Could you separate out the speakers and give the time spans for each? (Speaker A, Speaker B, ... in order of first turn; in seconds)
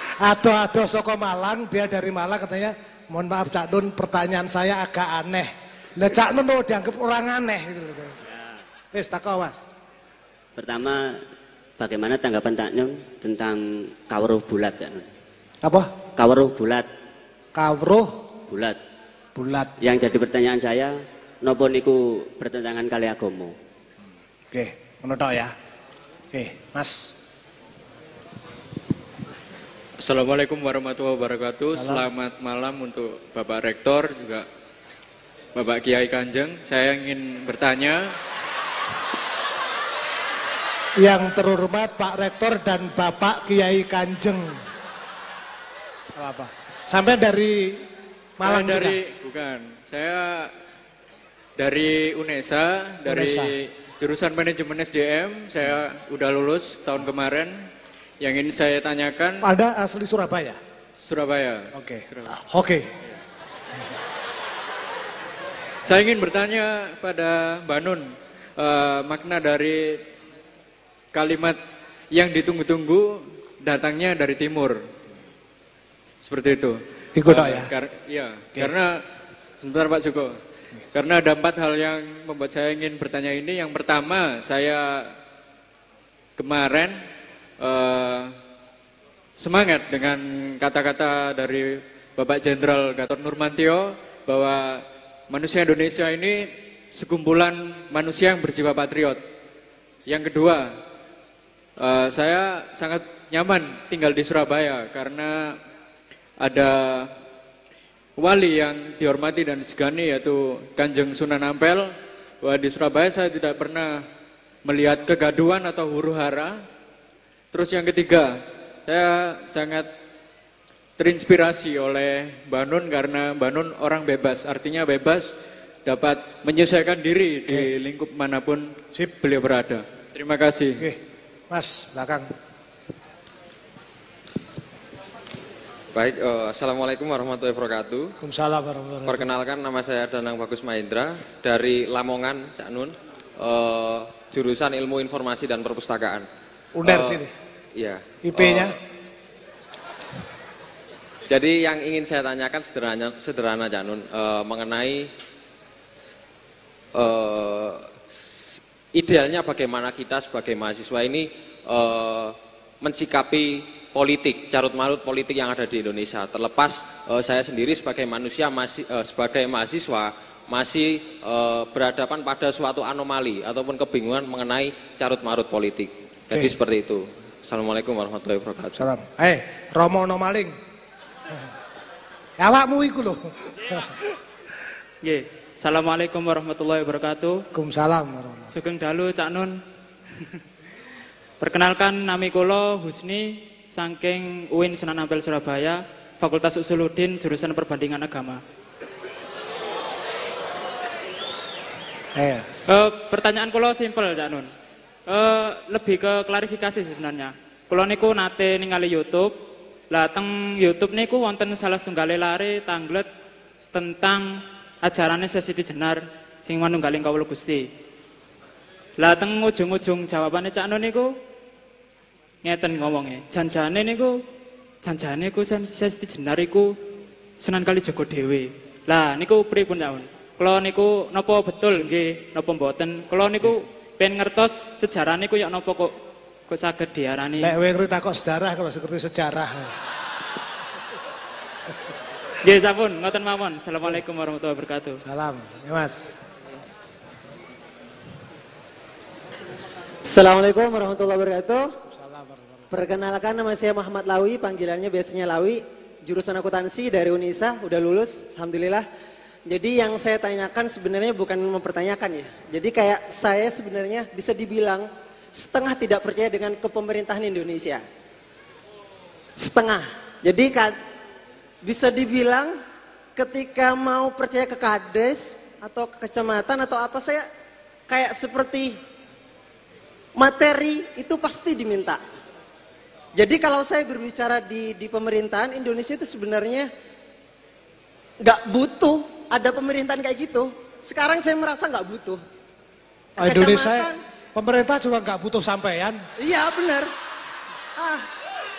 Speaker A: 0.2-8.2, 8.9-9.6, 15.6-15.9, 17.5-18.2, 19.4-19.7, 24.5-25.5, 26.3-27.1, 31.7-32.0, 41.0-44.6, 46.1-47.8, 48.4-49.0, 53.1-53.5, 59.4-60.6, 61.7-62.9, 77.2-77.7, 131.5-132.3, 138.2-139.2, 146.8-147.3, 148.2-148.8, 178.8-180.5, 182.4-184.0, 187.5-188.5, 202.1-202.6, 237.4-239.7, 245.0-246.1, 251.9-252.7, 293.2-296.0
Speaker B: 10.6-11.2, 11.8-15.0, 16.2-16.9, 18.5-18.8, 19.8-23.5
Speaker C: 30.0-34.5, 35.5-38.1, 48.4-50.5, 51.6-57.6, 58.2-59.4, 61.0-62.4, 65.8-70.0, 71.1-71.6, 72.1-74.8, 76.2-79.0, 79.6-80.4, 80.9-85.1, 86.4-87.0, 87.6-88.3, 89.4-99.2, 100.1-100.7, 101.8-105.6, 106.4-107.1, 108.2-111.9, 112.4-114.0, 114.6-116.5, 117.5-119.9, 121.0-125.3, 125.9-130.8
Speaker D: 135.9-138.1, 139.0-146.2, 146.8-147.2, 147.8-148.8, 151.3-155.1, 156.9-178.9
Speaker E: 185.0-187.4, 188.5-189.6, 191.4-198.4, 202.7-204.5, 205.1-209.4, 209.9-213.1, 213.7-217.7, 219.0-221.1, 222.4-224.2, 224.8-226.8, 227.4-235.9, 236.5-237.5, 242.4-245.0
Speaker F: 250.1-251.7, 252.7-258.9, 259.5-267.8, 269.4-270.8, 271.6-272.6, 273.1-277.2, 277.9-278.8, 280.2-282.0, 283.1-286.7, 288.2-292.2, 293.2-294.0, 296.2-296.9, 297.8-298.1